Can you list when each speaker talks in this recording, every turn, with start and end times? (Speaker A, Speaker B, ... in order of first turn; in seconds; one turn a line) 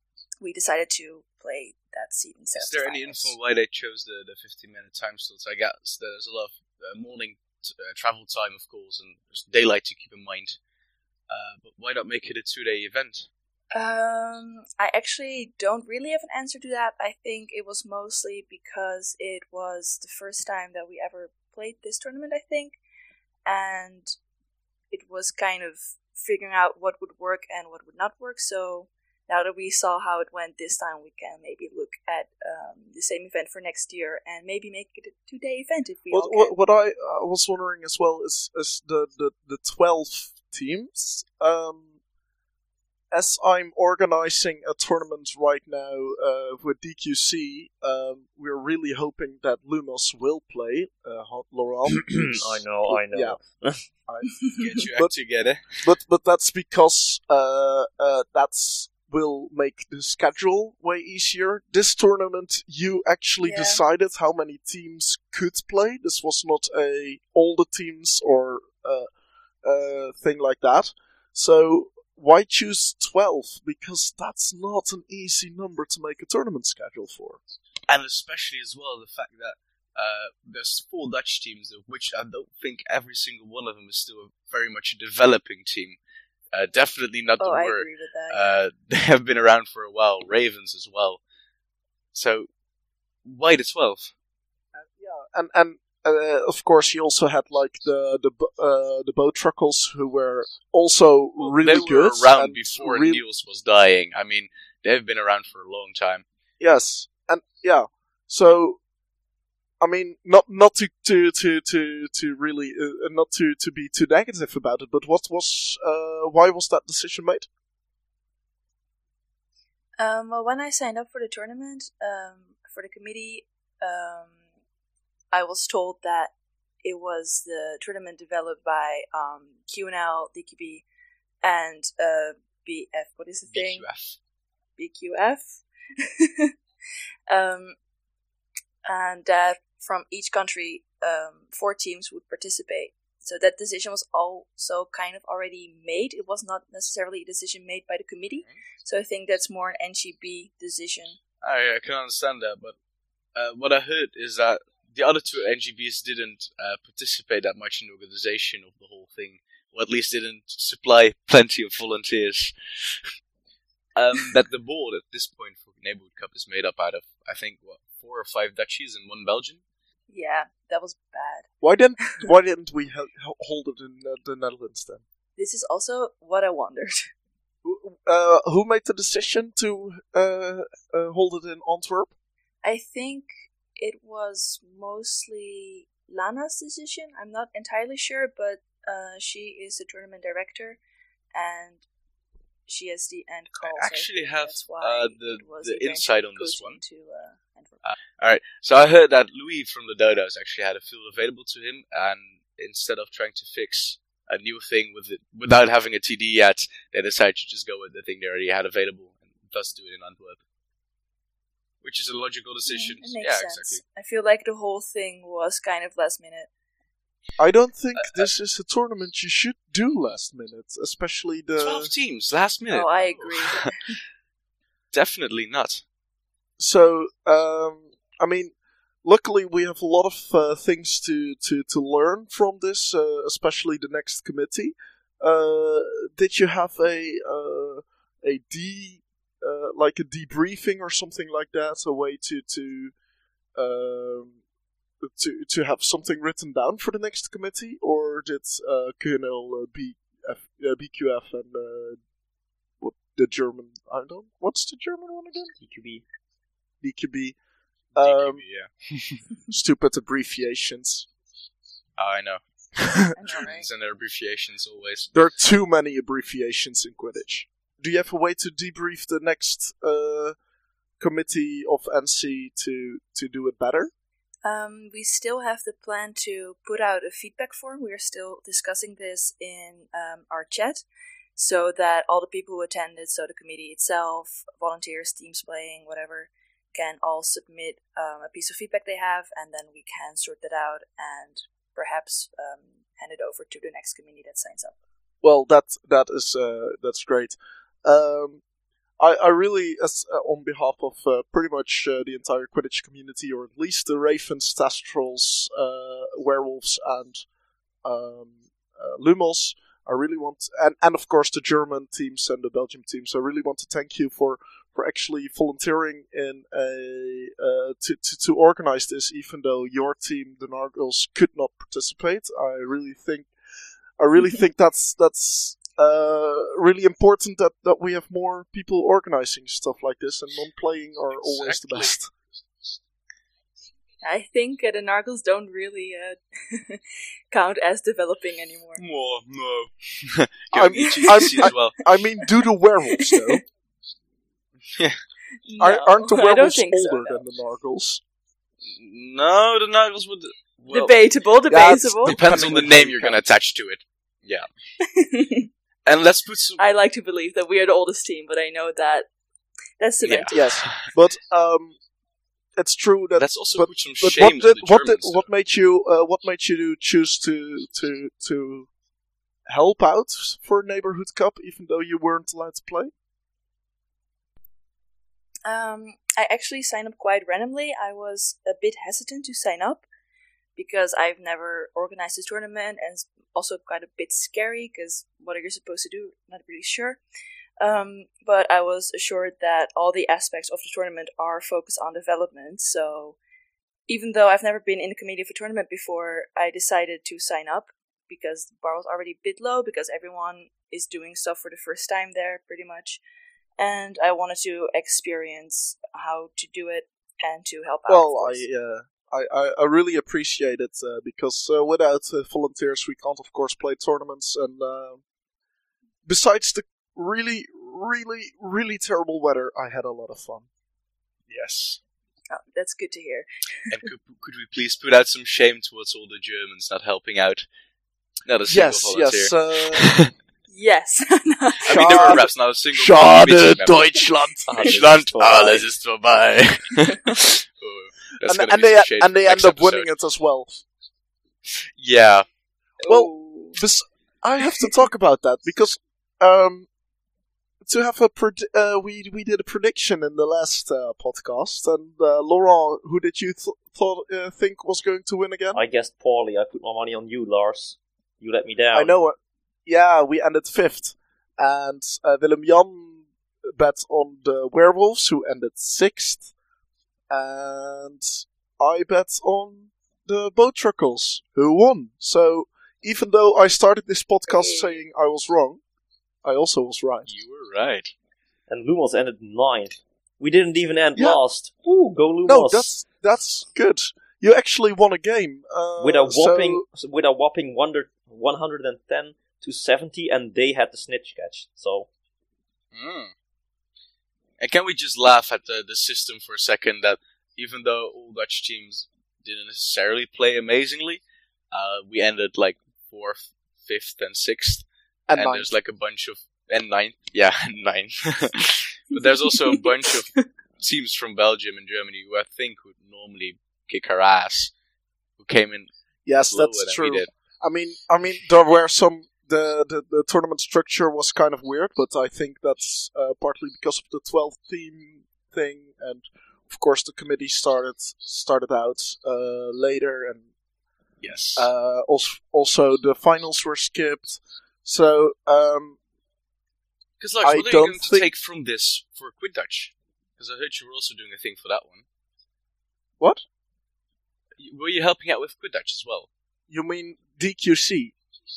Speaker A: 0.4-3.3
Speaker B: 2.6-10.6
Speaker B: 11.3-13.3
Speaker A: 13.7-22.8
Speaker A: 23.5-24.1
Speaker A: 24.9-36.5
Speaker C: 36.1-41.9
Speaker C: 43.1-53.4
Speaker D: 51.9-53.9
Speaker B: 54.6-55.8
Speaker C: 55.8-69.1
Speaker A: 63.4-63.8
Speaker C: 69.6-77.4
Speaker B: 77.9-86.0
Speaker B: 86.5-91.2
Speaker A: 87.4-88.6
Speaker B: 92.1-92.5
Speaker B: 93.2-94.1
Speaker C: 94.8-103.2
Speaker B: 101.4-106.2
Speaker C: 106.6-108.8
Speaker C: 109.8-117.5
Speaker A: 120.0-124.4
Speaker A: 125.3-130.8
Speaker A: 131.4-133.9
Speaker B: 133.5-134.2
Speaker A: 134.8-136.5
Speaker A: 137.3-137.8
Speaker A: 138.9-151.2
Speaker B: 151.4-152.8
Speaker B: 153.3-163.1
Speaker B: 164.0-169.6
Speaker A: 170.1-171.5
Speaker C: 171.6-175.0
Speaker A: 172.0-172.3
Speaker A: 175.4-177.1
Speaker C: 177.6-182.1
Speaker A: 182.6-190.8
Speaker A: 191.3-191.8
Speaker A: 192.7-197.8
Speaker B: 193.7-196.8
Speaker B: 197.8-210.4
Speaker B: 211.8-213.8
Speaker A: 212.7-216.5
Speaker C: 217.4-221.9
Speaker B: 218.0-218.3
Speaker B: 221.6-223.8
Speaker A: 222.7-223.9
Speaker B: 224.9-225.8
Speaker C: 226.6-242.9
Speaker C: 243.6-244.4
Speaker C: 245.0-252.0
Speaker C: 252.8-255.5
Speaker D: 255.6-256.0
Speaker C: 256.8-257.4
Speaker B: 257.9-259.2
Speaker C: 258.0-258.4
Speaker C: 259.5-261.1
Speaker B: 262.0-262.4
Speaker C: 262.8-263.5
Speaker A: 263.1-263.7
Speaker B: 263.3-265.1
Speaker C: 265.1-270.4
Speaker C: 271.0-273.9
Speaker A: 274.4-280.9
Speaker A: 281.4-294.8
Speaker C: 295.2-298.4
Speaker C: 299.0-307.2
Speaker C: 307.8-323.3
Speaker C: 324.0-332.1
Speaker B: 331.2-331.9
Speaker A: 334.0-338.8
Speaker B: 338.8-341.8
Speaker C: 340.5-343.4
Speaker A: 340.7-341.5
Speaker A: 343.0-343.4
Speaker B: 344.7-345.0
Speaker A: 345.5-347.2
Speaker C: 345.6-348.0
Speaker B: 348.7-350.9
Speaker A: 350.7-352.2
Speaker C: 351.5-353.2
Speaker B: 352.1-354.4
Speaker A: 354.8-355.5
Speaker B: 355.9-356.6
Speaker A: 356.6-359.1
Speaker A: 359.8-360.6
Speaker B: 360.1-360.9
Speaker C: 360.3-361.8
Speaker C: 362.6-368.7
Speaker B: 363.2-365.3
Speaker C: 369.5-372.9
Speaker A: 375.5-379.8
Speaker A: 380.6-387.0
Speaker A: 387.6-393.2
Speaker A: 393.9-403.0
Speaker A: 403.6-408.4
Speaker C: 407.9-415.0
Speaker C: 416.1-420.5
Speaker B: 421.3-421.8
Speaker A: 422.3-423.8
Speaker B: 423.7-427.5
Speaker B: 428.3-430.1
Speaker C: 428.5-429.9
Speaker A: 430.5-432.2
Speaker B: 431.6-439.9
Speaker C: 431.7-434.6
Speaker D: 434.5-435.7
Speaker C: 438.2-440.6
Speaker B: 441.8-442.3
Speaker C: 442.8-446.7
Speaker A: 442.9-443.6
Speaker C: 447.6-455.6
Speaker D: 455.5-458.9
Speaker C: 458.7-466.3
Speaker C: 467.1-475.6
Speaker A: 474.3-474.8
Speaker C: 476.2-477.1
Speaker B: 477.1-477.9
Speaker D: 478.5-482.7
Speaker C: 481.0-481.2
Speaker C: 482.2-486.6
Speaker D: 485.8-491.9
Speaker B: 492.7-493.1
Speaker B: 494.4-514.5
Speaker C: 505.1-505.5
Speaker B: 515.2-515.7
Speaker C: 516.1-530.2
Speaker B: 516.2-517.1
Speaker B: 531.0-531.5
Speaker C: 531.4-535.8
Speaker B: 537.0-541.8
Speaker C: 537.2-538.1
Speaker B: 544.4-546.1
Speaker C: 546.5-547.9